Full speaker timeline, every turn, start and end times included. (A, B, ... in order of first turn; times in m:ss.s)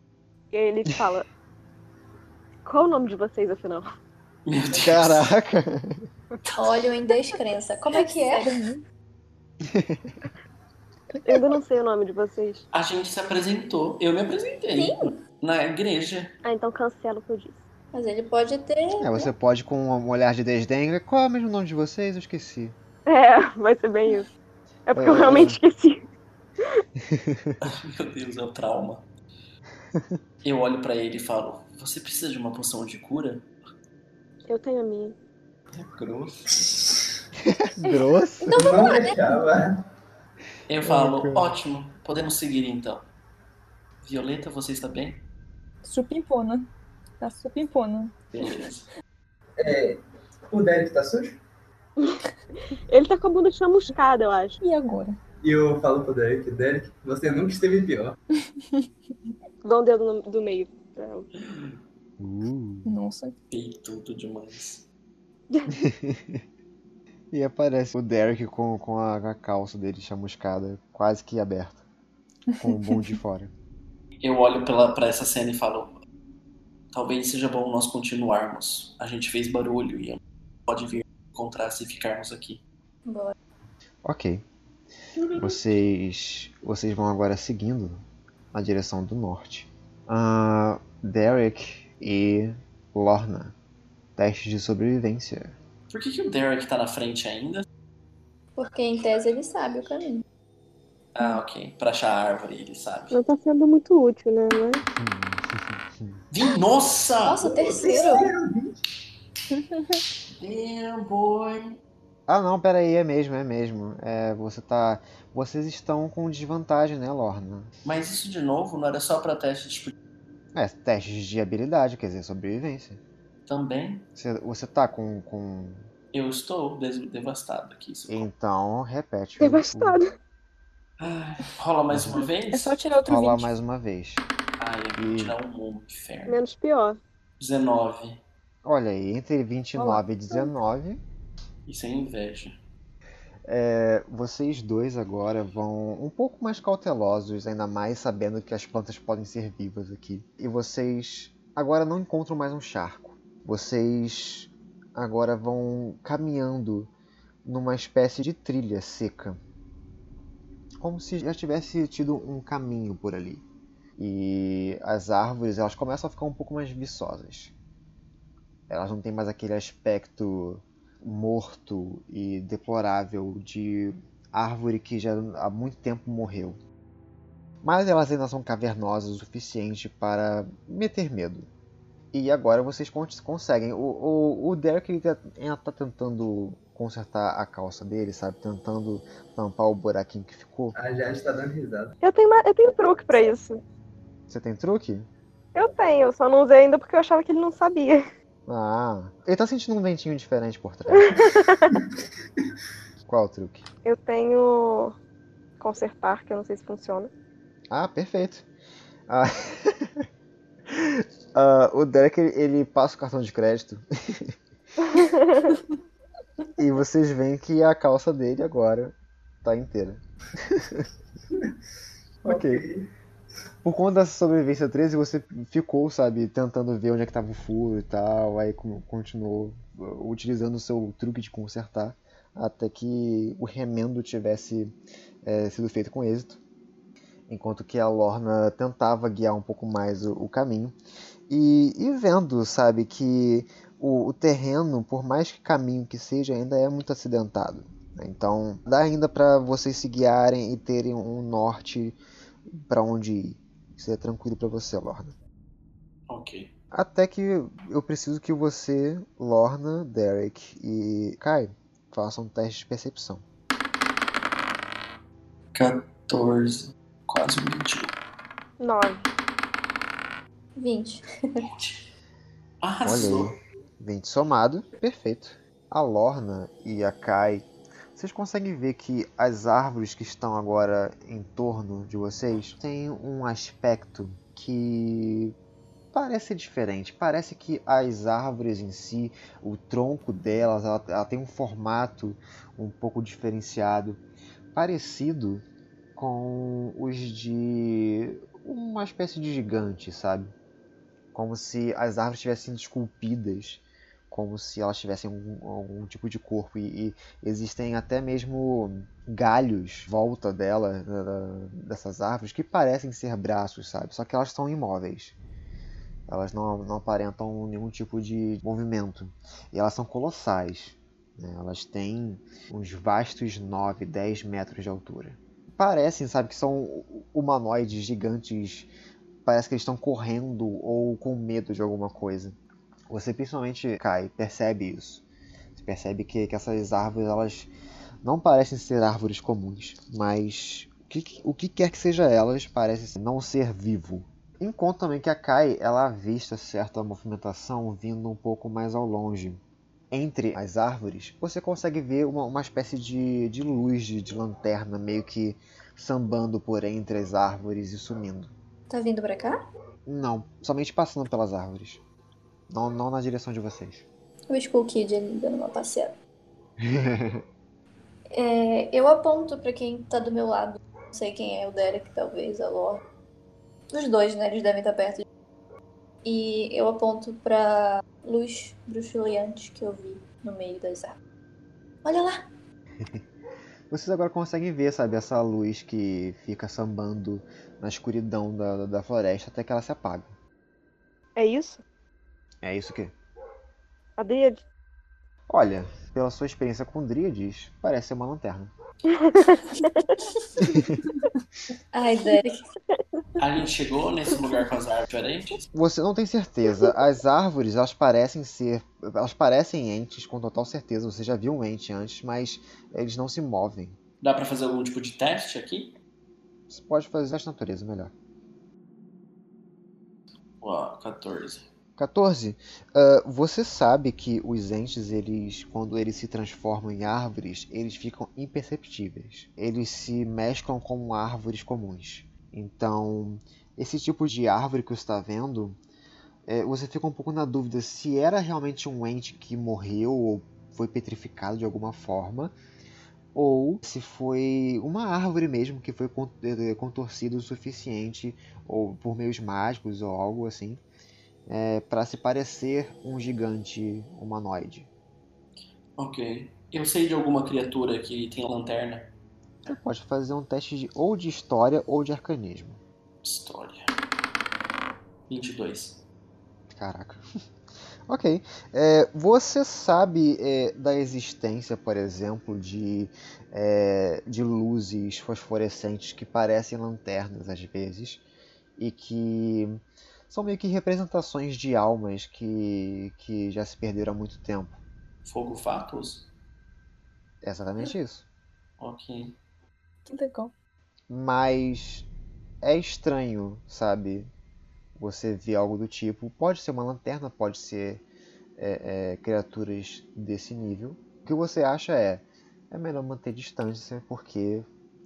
0:00.5-0:01.3 A
0:02.6-0:03.9 A
0:04.5-0:05.3 B
0:04.7-0:06.1 C
0:06.5-0:08.6 D
0:07.9-0:08.8 E
0:09.6-0:10.2 C
0:11.2-0:12.6 A
0:12.7-0:16.3 B
0:14.8-0:15.2 D
0:16.4-0:17.6 A
0:17.9-0:19.3 D
0:19.0-0:22.8 C
0:23.1-0:24.3 A
0:24.9-0:26.0 A
0:25.0-0:25.6 C
0:27.0-0:27.6 C
0:27.6-0:29.1 B
0:29.9-0:30.2 C
0:30.4-0:33.5 B
0:34.5-0:35.2 A
0:35.7-0:36.8 B
0:36.6-0:36.9 F
0:37.4-0:38.7 C
0:38.4-0:39.4 D
0:38.5-0:39.9 F
0:40.7-0:43.1 B
0:40.8-0:41.6 C
0:44.0-0:45.2 B
0:45.8-0:46.7 E
0:47.2-0:48.1 E
0:48.3-0:48.9 B
0:49.6-0:51.4 F
0:52.9-0:54.6 A
0:54.6-0:55.2 E
0:55.4-0:58.2 F
0:59.6-1:01.3 A
1:01.4-1:01.8 B
1:02.2-1:02.9 C
1:02.9-1:03.4 E
1:03.5-1:04.8 B
1:05.5-1:05.8 A
1:05.7-1:06.4 C
1:07.3-1:11.8 C
1:12.6-1:13.5 C
1:14.2-1:16.0 B
1:16.9-1:22.6 B
1:23.1-1:23.3 D
1:24.0-1:24.4 C
1:25.2-1:25.6 B
1:25.3-1:33.6 C
1:34.2-1:35.6 C
1:35.9-1:37.6 B
1:38.6-1:40.2 D
1:41.2-1:43.2 B
1:43.1-1:44.8 A
1:44.9-1:46.2 C
1:46.3-1:47.4 B
1:47.2-1:48.3 D
1:47.4-1:48.8 F
1:50.4-1:51.8 B
1:52.3-1:57.7 C
1:57.8-1:59.9 B
2:00.6-2:03.0 C
2:03.5-2:04.0 B
2:04.2-2:05.9 C
2:06.1-2:08.3 B
2:08.1-2:10.0 C
2:09.4-2:10.1 A
2:11.0-2:12.8 B
2:11.9-2:12.2 C
2:12.5-2:13.5 E
2:13.0-2:14.3 C
2:14.6-2:16.4 B
2:15.0-2:15.4 C
2:16.3-2:17.0 A
2:17.4-2:18.2 B
2:18.6-2:21.0 C
2:19.8-2:20.5 E
2:21.7-2:22.6 B
2:23.5-2:36.9 C
2:37.4-2:39.4 C
2:40.8-2:43.4 C
2:44.0-2:47.5 C
2:48.7-2:56.6 C
2:57.6-3:01.5 C
3:02.1-3:10.8 C
3:10.8-3:12.0 F
3:12.0-3:13.6 A
3:14.3-3:15.1 C
3:15.6-3:18.0 A
3:18.5-3:21.3 C
3:21.0-3:21.8 A
3:23.1-3:23.7 C
3:23.8-3:25.0 A
3:25.6-3:27.1 A
3:27.7-3:28.5 C
3:29.1-3:30.1 C
3:30.7-3:34.4 C
3:34.9-3:35.5 A
3:36.6-3:40.9 C
3:42.2-3:42.6 C
3:42.2-3:42.9 F
3:43.6-3:56.4 C
3:57.3-4:00.8 C
4:01.3-4:15.2 C
4:16.1-4:16.5 B
4:16.7-4:23.2 C
4:25.5-4:27.9 B
4:28.6-4:29.1 A
4:30.6-4:31.4 D
4:31.4-4:31.9 B
4:32.6-4:33.4 B
4:32.8-4:45.4 C
4:45.9-4:54.0 C
4:54.5-4:55.4 C
4:56.0-5:00.3 C
5:01.1-5:15.2 C
5:16.1-5:28.7 C
5:29.2-5:32.4 C
5:32.9-5:35.0 C
5:35.6-5:37.5 C
5:38.0-5:58.3 C
5:58.7-5:59.4 D
5:59.9-6:01.8 C
6:02.5-6:03.9 C
6:04.3-6:06.0 D
6:06.6-6:07.2 C
6:08.1-6:12.8 D
6:13.7-6:15.1 D
6:16.0-6:21.0 D
6:21.8-6:22.3 D
6:22.8-6:23.0 C
6:23.7-6:30.1 C
6:31.2-6:31.6 A
6:32.4-6:32.9 C
6:34.0-6:34.4 A
6:35.3-6:38.5 C
6:38.9-6:40.0 A
6:40.4-6:40.8 C
6:41.7-6:42.4 D
6:43.2-6:45.4 B
6:45.5-6:53.8 C
6:54.0-6:55.8 B
6:56.5-6:57.9 C
7:00.4-7:01.5 B
7:01.8-7:15.6 C
7:16.3-7:22.4 C
7:23.1-7:30.6 C
7:31.3-7:34.7 C
7:35.8-7:38.9 B
7:39.5-7:42.6 C
7:43.0-7:43.7 B
7:45.1-7:45.8 B
7:46.5-7:47.0 C
7:47.9-7:58.0 C
7:58.6-8:04.6 C
8:05.0-8:06.1 B
8:07.2-8:08.0 C
8:08.6-8:09.2 B
8:09.8-8:10.3 E
8:10.9-8:11.9 C
8:12.4-8:14.1 C
8:14.8-8:17.8 C
8:18.4-8:24.5 C